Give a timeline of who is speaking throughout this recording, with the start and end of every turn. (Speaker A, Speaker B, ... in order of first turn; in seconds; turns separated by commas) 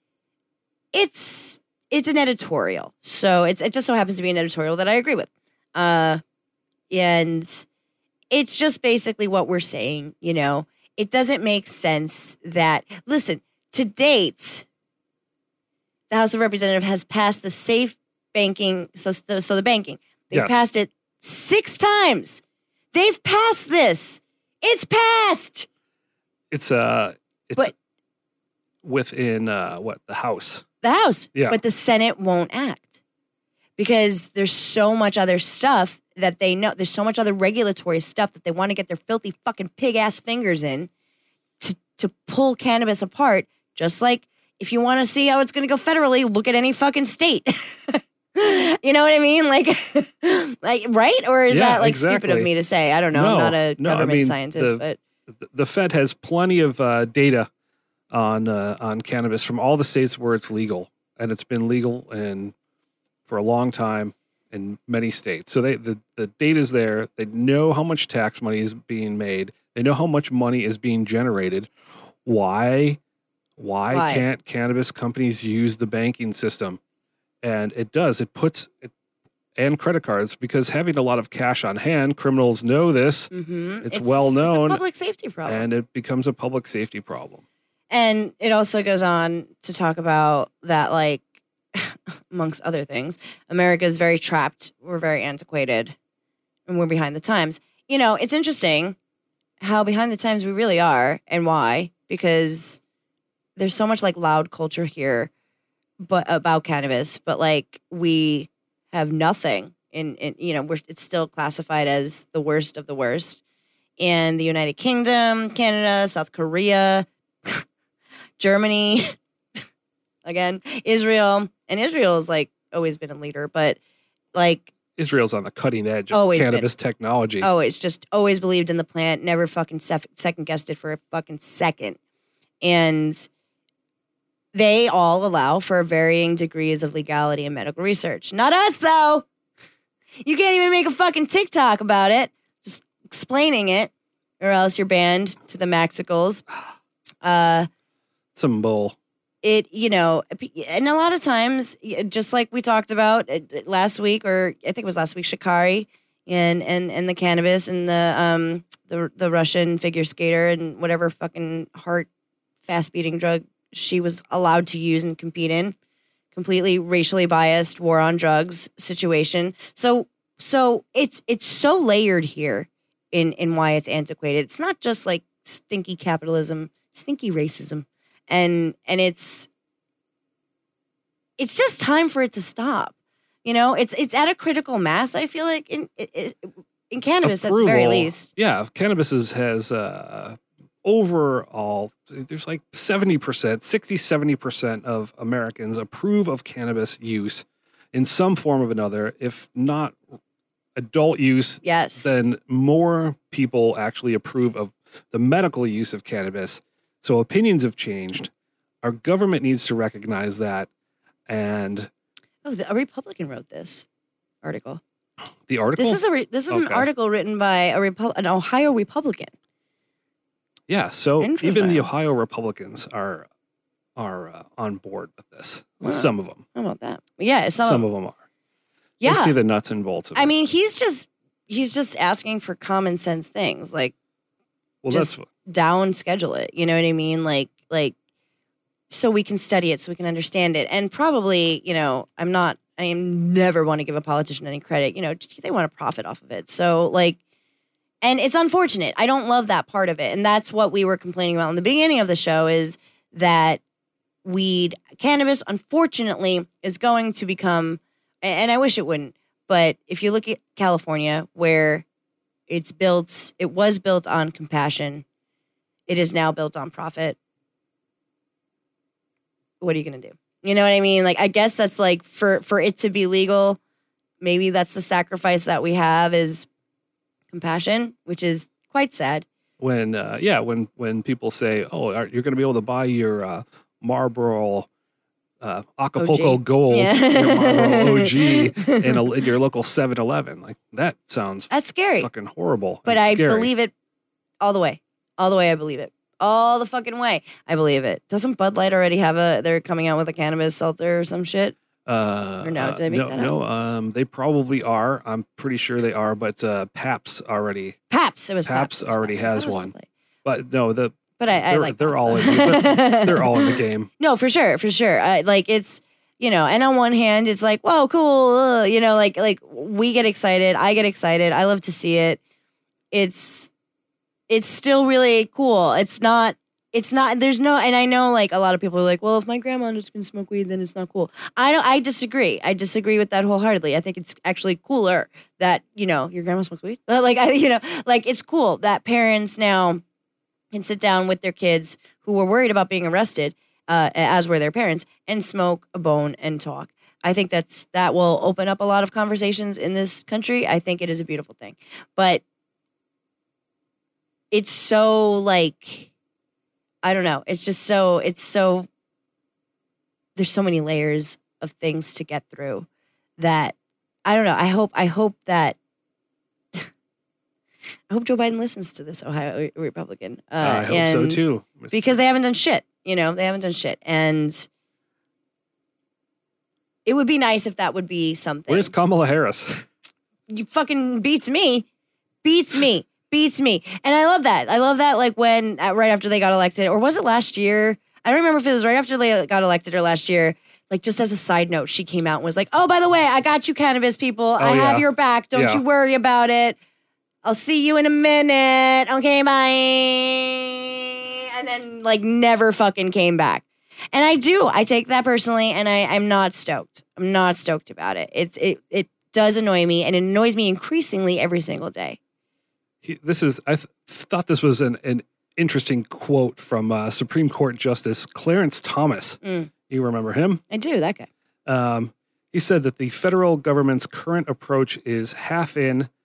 Speaker A: 0.9-6.2, Speaker A: 6.9-7.7, Speaker A: 8.3-14.6, Speaker A: 16.1-25.7, Speaker B: 26.5-27.7, Speaker B: 28.8-30.6, Speaker A: 30.8-33.0, Speaker A: 33.8-40.9, Speaker A: 41.6-55.0, Speaker B: 51.5-52.5, Speaker B: 53.1-57.5, Speaker B: 58.1-62.5, Speaker B: 63.3-71.7, Speaker B: 72.2-73.0, Speaker B: 73.6-76.8, Speaker A: 73.9-74.2, Speaker B: 77.4-78.9, Speaker B: 79.6-83.3, Speaker A: 83.3-85.7, Speaker B: 83.8-84.8, Speaker B: 85.5-87.4, Speaker A: 87.9-96.0, Speaker A: 96.7-99.0, Speaker A: 99.6-102.8, Speaker A: 103.6-105.3, Speaker A: 106.0-113.4, Speaker A: 114.0-117.7, Speaker A: 118.4-119.2, Speaker A: 120.2-123.8, Speaker A: 124.3-124.7, Speaker B: 125.0-127.5, Speaker A: 126.1-126.7, Speaker A: 127.4-132.0, Speaker A: 132.6-133.3, Speaker A: 134.5-139.3, Speaker A: 140.2-146.4, Speaker A: 147.2-147.7, Speaker B: 148.3-148.9, Speaker A: 149.4-162.1, Speaker A: 162.6-165.7, Speaker A: 166.3-179.5, Speaker A: 181.4-182.9, Speaker A: 183.4-188.3, Speaker B: 187.2-200.0, Speaker B: 200.8-208.3, Speaker A: 201.6-202.1, Speaker B: 208.8-210.7, Speaker B: 211.3-211.9, Speaker A: 212.4-213.9, Speaker A: 214.4-214.8, Speaker B: 215.5-216.9, Speaker A: 215.8-219.3, Speaker B: 220.7-223.3, Speaker A: 221.2-221.9, Speaker B: 223.9-226.4, Speaker A: 225.8-227.8, Speaker B: 227.6-228.2, Speaker A: 229.0-229.3, Speaker B: 229.0-230.3, Speaker A: 230.1-233.9, Speaker B: 234.8-235.3, Speaker A: 234.9-237.9, Speaker A: 238.9-247.2, Speaker A: 248.0-253.6, Speaker A: 254.2-261.9, Speaker A: 262.5-265.1, Speaker A: 265.9-267.2, Speaker A: 269.6-273.6, Speaker A: 274.2-276.5, Speaker A: 277.3-279.3, Speaker B: 279.6-284.7, Speaker B: 285.4-293.5, Speaker A: 286.0-289.0, Speaker A: 291.5-292.1, Speaker A: 292.9-293.7, Speaker A: 294.4-301.6, Speaker B: 301.9-307.8, Speaker A: 302.4-303.4, Speaker A: 307.9-309.9, Speaker B: 308.4-309.7, Speaker B: 310.2-313.9, Speaker A: 311.2-322.2, Speaker A: 322.9-323.5, Speaker A: 324.3-339.8, Speaker A: 340.5-352.2, Speaker A: 354.3-355.9, Speaker A: 356.8-358.7, Speaker A: 360.2-362.7, Speaker A: 363.2-363.6, Speaker A: 364.1-365.6, Speaker A: 367.9-374.5, Speaker B: 370.4-372.0, Speaker A: 376.9-378.7, Speaker B: 378.5-379.7, Speaker A: 380.3-381.7, Speaker A: 382.2-396.6, Speaker B: 394.4-395.6, Speaker A: 397.2-412.0, Speaker B: 412.8-420.4, Speaker A: 419.2-419.5, Speaker A: 420.5-421.1, Speaker B: 421.4-425.9